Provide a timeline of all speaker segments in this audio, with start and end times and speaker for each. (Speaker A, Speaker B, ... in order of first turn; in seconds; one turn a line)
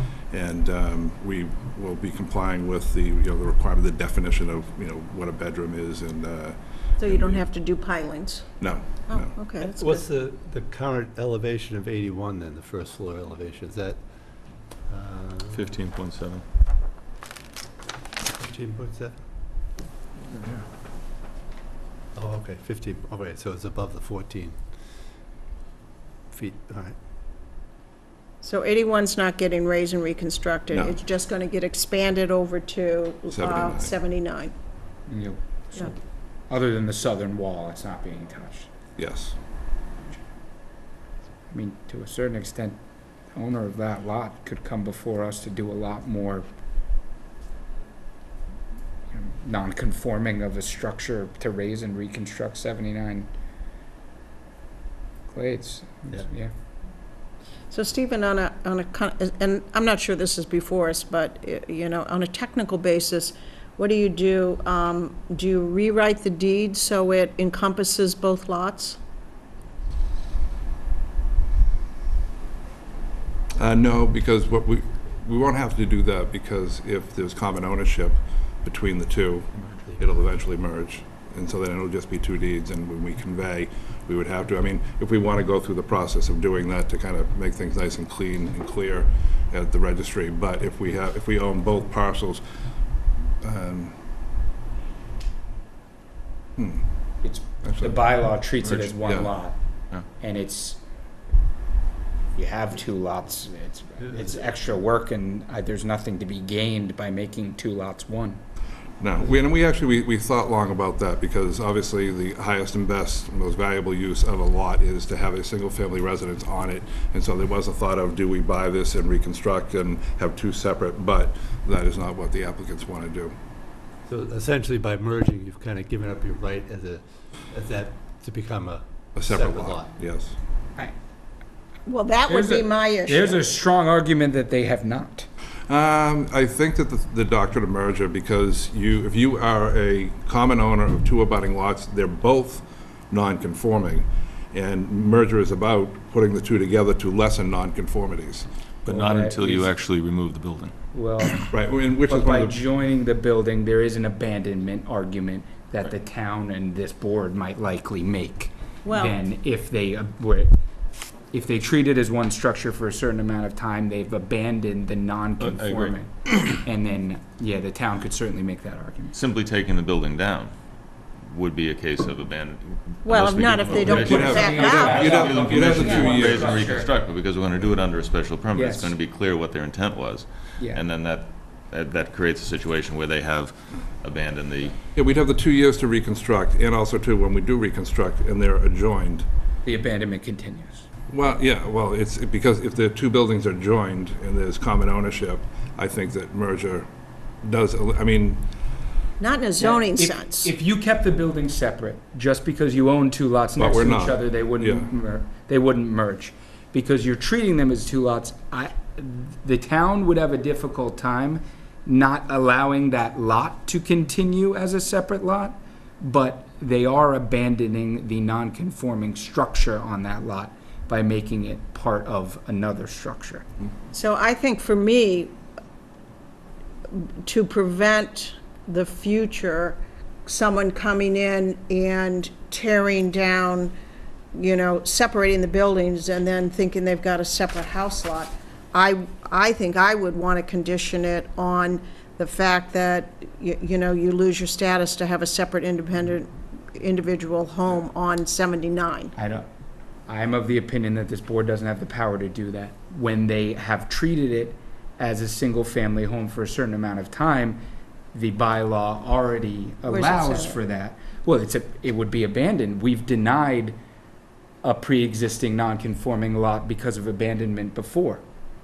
Speaker A: 0.3-7.4
Speaker B: 7.0-8.5
Speaker A: 8.6-9.3
Speaker B: 9.1-10.0
Speaker C: 9.6-15.7
Speaker D: 15.5-16.4
Speaker C: 18.3-19.1
Speaker C: 22.1-24.7
Speaker C: 26.3-26.9
Speaker B: 28.4-34.5
Speaker A: 30.7-31.0
Speaker A: 33.3-33.9
Speaker E: 35.1-35.9
Speaker E: 36.5-38.7
Speaker A: 39.0-39.4
Speaker E: 41.5-42.8
Speaker E: 43.3-46.5
Speaker E: 49.1-53.3
Speaker E: 55.3-56.5
Speaker B: 57.7-69.0
Speaker A: 73.6-92.4
Speaker C: 79.6-80.0
Speaker A: 93.4-94.0
Speaker A: 96.6-97.0
Speaker E: 97.2-99.6
Speaker A: 97.6-98.3
Speaker A: 99.0-99.3
Speaker E: 100.2-100.8
Speaker E: 102.3-108.4
Speaker A: 109.0-123.3
Speaker C: 124.0-129.9
Speaker A: 129.2-130.3
Speaker B: 131.8-133.4
Speaker E: 132.3-135.3
Speaker A: 135.7-148.4
Speaker D: 148.8-151.5
Speaker E: 148.8-149.7
Speaker E: 150.9-160.5
Speaker A: 151.5-152.6
Speaker B: 158.8-159.2
Speaker E: 161.3-169.2
Speaker D: 165.4-165.9
Speaker D: 169.1-170.5
Speaker D: 171.1-184.7
Speaker B: 173.0-175.1
Speaker E: 173.8-176.9
Speaker A: 173.8-176.6
Speaker E: 178.5-178.9
Speaker A: 184.9-189.2
Speaker E: 189.6-190.9
Speaker A: 191.1-196.9
Speaker A: 197.4-198.4
Speaker B: 199.2-200.5
Speaker E: 199.6-223.4
Speaker A: 203.6-204.9
Speaker B: 223.9-225.3
Speaker B: 226.9-233.7
Speaker B: 234.3-249.1
Speaker E: 249.2-249.5
Speaker E: 250.1-257.6
Speaker E: 258.1-263.8
Speaker B: 259.9-260.6
Speaker E: 264.6-268.2